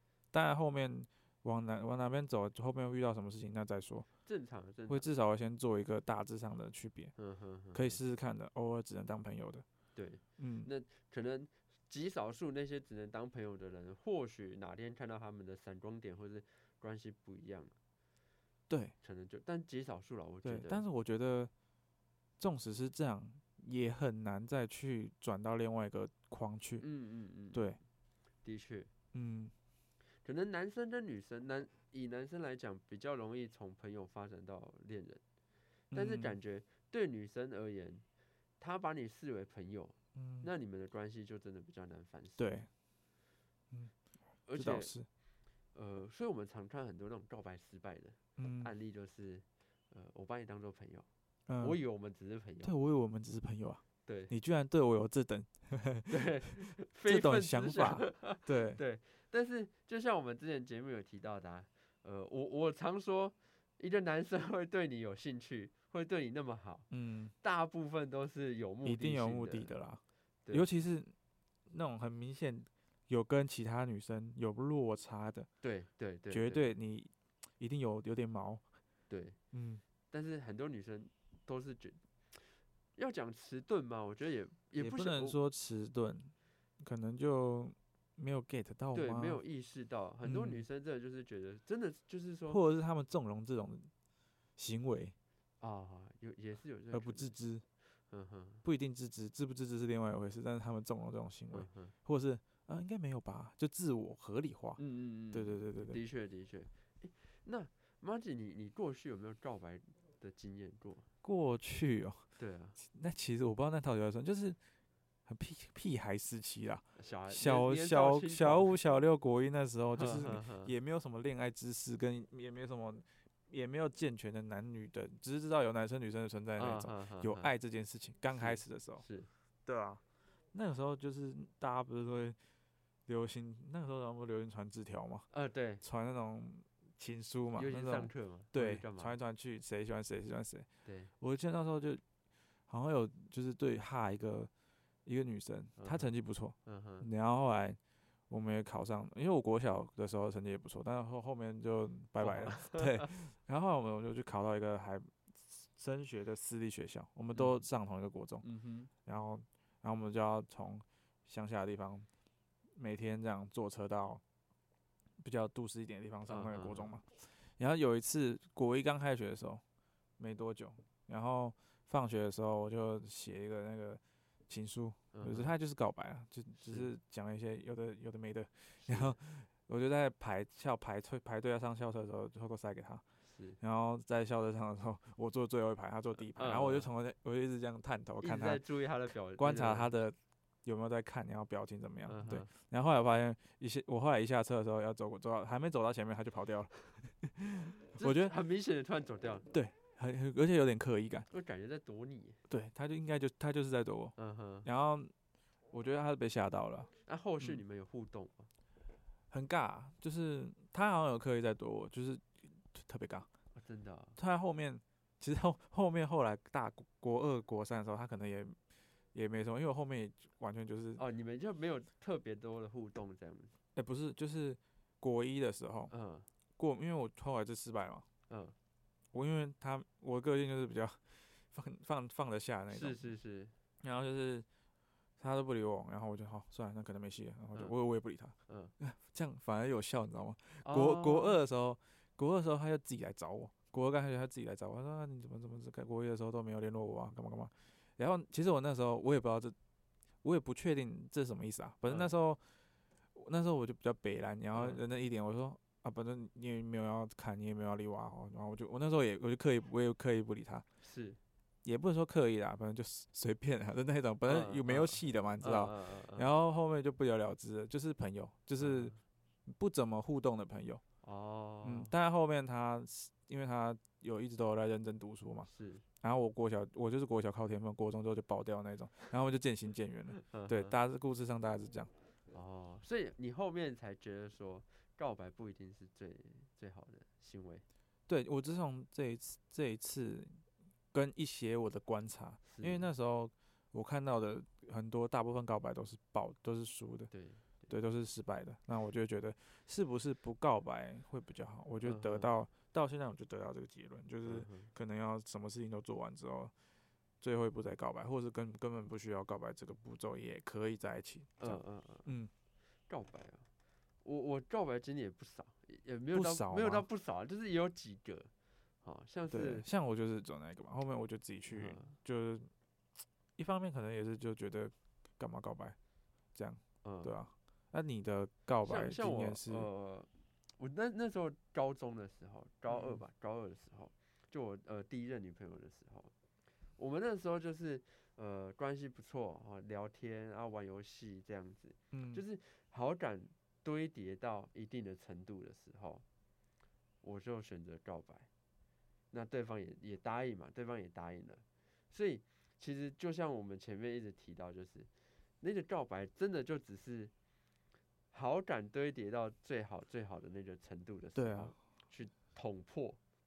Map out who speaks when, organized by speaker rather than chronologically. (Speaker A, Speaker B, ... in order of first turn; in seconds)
Speaker A: 0.3-4.1, 4.9-7.1, 7.7-9.6, 10.4-10.7, 18.7-18.9, 20.4-21.5, 22.4-26.8, 27.5-27.8, 29.1-29.5, 35.9-36.4, 40.1-40.5, 42.4-42.7, 44.5-45.1, 48.4-48.7, 51.5-51.8, 52.6-56.2, 57.1-58.8, 66.9-67.3, 68.8-71.1, 71.7-75.5, 76.3-78.6, 79.5-79.8, 84.8-89.4, 90.2-90.6, 92.5-93.9, 94.6-95.1, 96.9-97.6, 98.6-104.8, 105.3-106.0, 111.2-112.2, 112.8-114.6, 115.2-129.0, 129.7-130.0, 130.5-132.4, 133.1-135.3, 135.8-140.7, 141.2-142.0, 142.7-144.5, 145.1-147.8, 148.3-158.4, 159.0-162.1, 162.8-164.2, 165.2-169.6, 170.2-183.0, 183.6-188.6, 189.4-198.3, 199.5-201.3, 202.5-205.1, 205.7-207.6, 209.3-213.3, 214.2-218.6, 219.1-221.0, 223.7-225.9, 226.6-228.1, 229.1-233.0, 233.8-234.4, 235.2-249.5, 250.2-252.4, 253.1-260.6, 261.6-268.9, 269.4-270.8, 271.6-275.5, 276.0-281.9, 288.1-290.4, 290.9-297.1, 297.7-306.5, 307.2-312.3, 316.1-316.9, 319.3-322.5, 323.4-325.8, 326.3-329.7, 332.7-333.0, 341.9-342.2, 361.1-361.5
Speaker B: 4.2-5.1, 7.2-8.0, 9.9-17.7, 19.0-20.8, 26.8-27.8, 28.4-28.9, 30.2-35.2, 35.9-38.0, 38.6-42.6, 44.5-44.9, 45.7-51.0, 51.6-52.7, 54.0-54.3, 56.1-66.9, 67.4-69.7, 75.6-76.7, 79.1-79.4, 80.1-82.4, 83.0-85.4, 88.9-92.6, 95.6-97.3, 98.1-98.6, 101.5-101.9, 104.8-111.1, 112.4-112.8, 117.0-118.8, 120.0-120.7, 126.6-127.5, 128.3-129.3, 135.3-135.8, 137.5-139.2, 140.8-141.1, 145.8-146.1, 146.6-147.1, 152.2-153.1, 157.3-157.6, 158.4-158.9, 166.3-166.9, 175.1-175.5, 176.6-176.9, 178.8-179.2, 183.2-183.6, 186.3-186.9, 188.2-189.9, 192.1-192.5, 197.9-199.5, 201.3-202.4, 204.2-204.7, 207.1-208.5, 213.5-214.2, 221.0-223.6, 225.9-226.3, 228.3-228.5, 232.7-233.5, 238.5-238.7, 240.6-241.4, 251.8-252.1, 254.5-254.8, 260.8-261.2, 264.2-266.3, 268.6-269.0, 271.0-271.9, 275.4-275.8, 280.2-280.8, 282.3-287.6, 292.4-292.9, 297.1-297.7, 301.8-302.3, 304.2-304.7, 311.4-312.1, 312.9-313.5, 314.0-318.3, 318.8-319.6, 321.5-321.9, 326.8-327.1, 328.6-336.1, 336.8-346.0, 347.0-348.3, 349.1-354.9, 355.4-357.1, 358.1-363.0